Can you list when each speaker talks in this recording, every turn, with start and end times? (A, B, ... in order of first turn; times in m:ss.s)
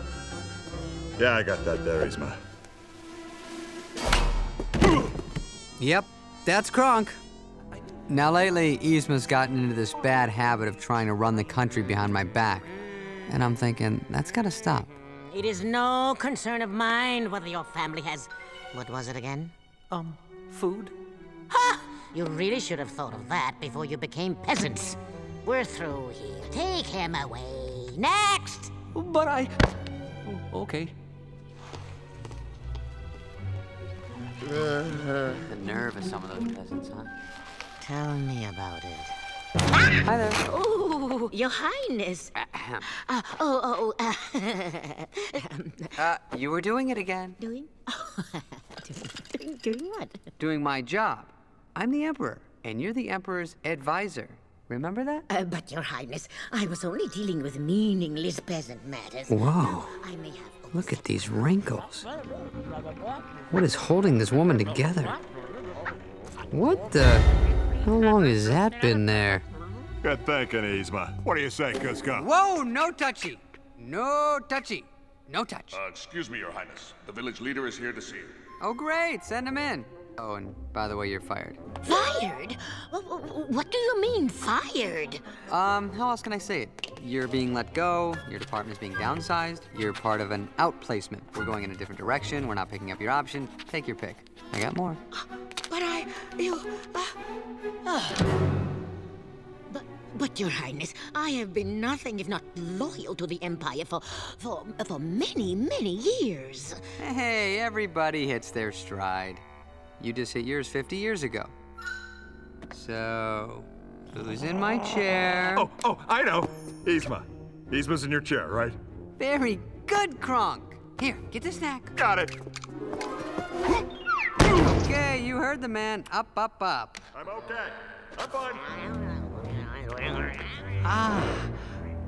0:01.2-0:02.4 A
0:05.8-0:07.2 B
0:08.1-0:12.7 B
0:13.3-0:15.0 B
0:15.3-0:19.5 C
0:19.9-0:21.0 D
0:21.5-0:28.7 C
0:28.9-0:29.5 D
0:30.2-0:30.9 D
0:34.6-0:37.1 B
0:37.8-0:39.2 C
0:39.7-0:46.0 C
0:40.0-0:40.4 B
0:42.3-0:42.9 B
0:46.0-0:47.4 B
0:47.4-0:50.2 C
0:50.4-0:55.3 B
0:55.3-1:01.1 C
0:59.3-1:00.0 B
1:00.7-1:02.1 B
1:03.5-1:05.2 B
1:06.5-1:07.3 B
1:07.8-1:09.4 B
1:10.0-1:12.3 A
1:12.1-1:15.8 B
1:15.8-1:18.3 E
1:18.6-1:21.6 B
1:21.8-1:25.4 C
1:25.5-1:35.0 B
1:35.2-1:37.2 C
1:37.8-1:38.3 C
1:39.7-1:46.9 C
1:47.0-1:49.4 B
1:50.0-1:51.5 B
1:52.7-1:55.7 B
1:55.6-1:58.8 A
1:59.2-2:02.0 B
2:02.0-2:02.4 A
2:04.4-2:07.0 B
2:07.1-2:08.7 A
2:08.6-2:10.8 C
2:10.8-2:11.5 B